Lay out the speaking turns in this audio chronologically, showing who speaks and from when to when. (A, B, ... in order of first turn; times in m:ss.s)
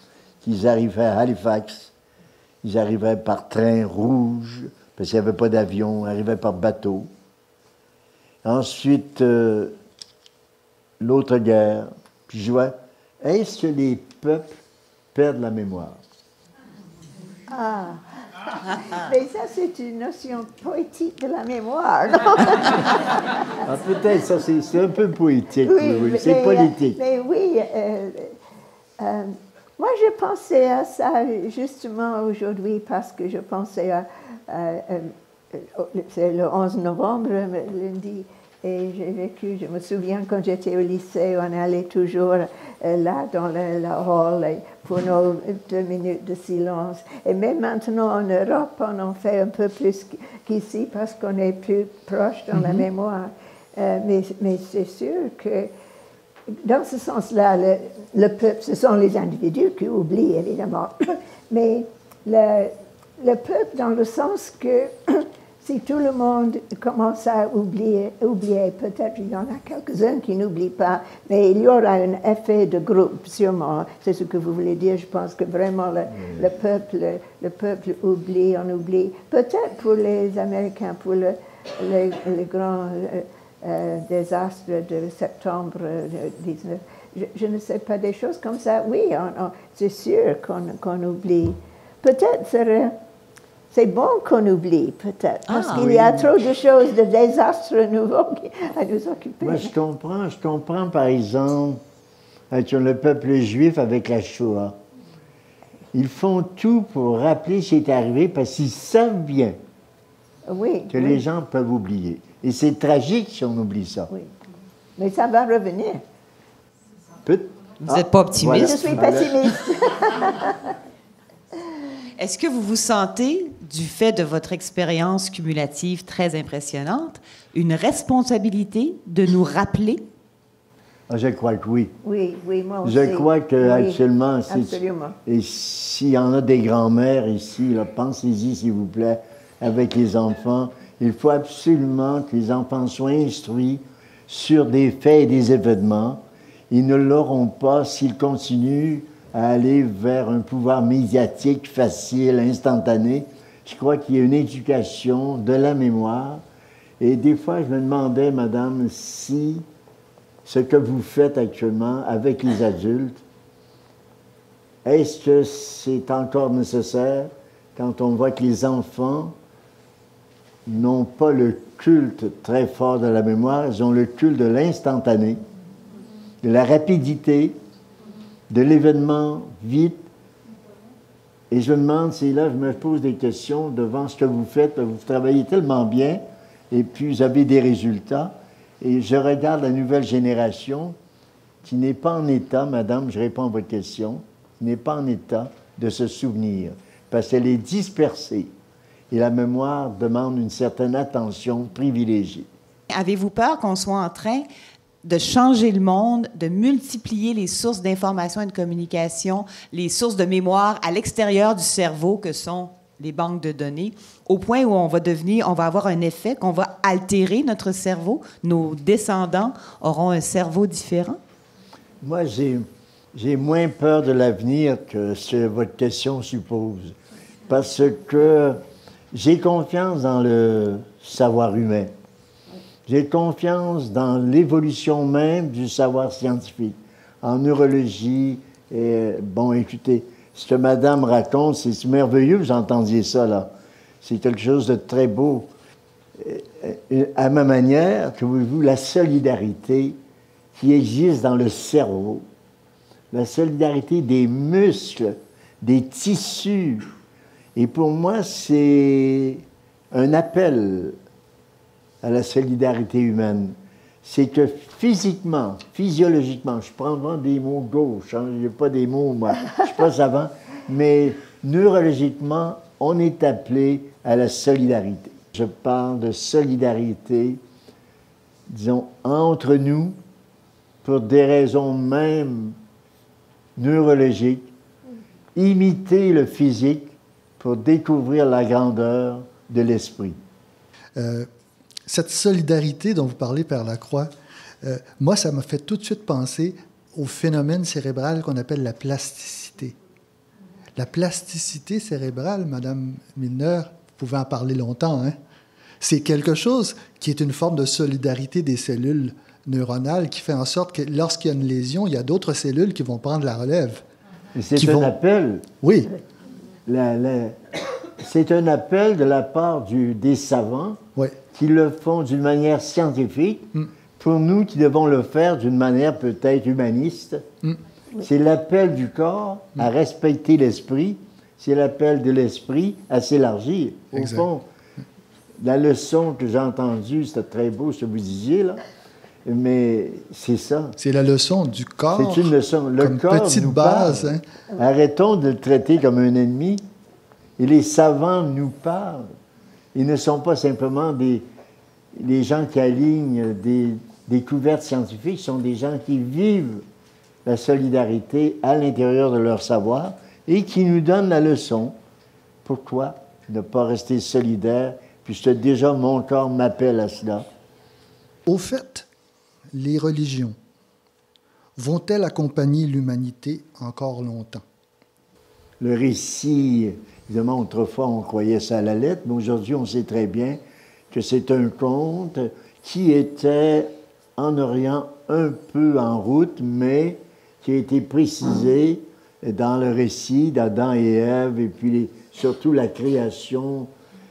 0:00.4-0:01.9 A
0:02.6-0:07.1 A
0:08.4-0:09.7 A
0:11.0-0:14.6 A
0:15.1-0:16.0 A
0:17.5-0:23.2 B
0:23.6-0:27.0 A
0:25.6-0:28.4 B
0:29.0-0:55.7 B
0:56.5-1:32.9 B
1:33.7-1:39.7 B
1:35.5-1:35.8 C
1:35.7-1:36.3 A
1:39.4-1:41.8 A
1:42.5-1:44.8 A
1:45.9-1:49.6 A
1:50.5-1:51.2 B
1:50.9-1:54.1 A
1:55.0-1:56.0 B
1:57.2-1:59.5 A
1:57.8-1:59.1 C
1:58.5-2:00.7 B
2:02.2-2:10.0 C
2:11.1-2:12.0 A
2:12.0-2:15.2 B
2:12.8-2:36.4 A
2:37.0-2:39.6 A
2:40.4-2:43.2 A
2:44.8-2:49.4 A
2:50.6-2:55.4 A
2:56.4-2:57.6 A
2:58.5-3:00.1 A
3:01.5-3:10.9 A
3:11.6-3:18.5 A
3:19.1-3:22.5 A
3:22.9-3:24.5 C
3:25.0-3:41.2 C
3:42.0-3:47.0 A
3:47.5-3:48.6 A
3:49.1-3:51.9 A
3:52.9-4:05.5 A
4:06.2-4:10.0 A
4:10.5-4:12.2 A
4:13.1-4:16.9 A
4:17.5-4:21.0 A
4:22.0-4:37.4 A
4:38.5-4:40.0 A
4:40.8-4:42.6 A
4:43.6-4:44.5 A
4:45.3-4:50.2 A
4:51.0-4:51.3 D
4:51.8-4:59.8 D
5:00.8-5:05.2 D
5:05.8-5:13.8 D
5:14.3-5:15.5 A
5:14.5-5:14.9 D
5:15.6-5:15.9 D
5:16.6-5:20.8 A
5:21.3-5:27.3 A
5:28.0-5:34.4 A
5:33.9-5:34.3 D
5:35.4-5:38.6 A
5:39.2-5:40.8 A
5:40.8-5:44.2 D
5:41.9-5:46.6 A
5:47.4-5:49.1 A
5:49.7-5:51.3 A
5:51.9-5:56.6 A
5:57.2-6:01.8 A
6:02.4-6:07.3 A
6:08.2-6:08.9 D
6:09.5-6:10.4 D
6:11.6-6:14.4 D
6:15.6-6:20.4 A
6:20.9-6:33.7 A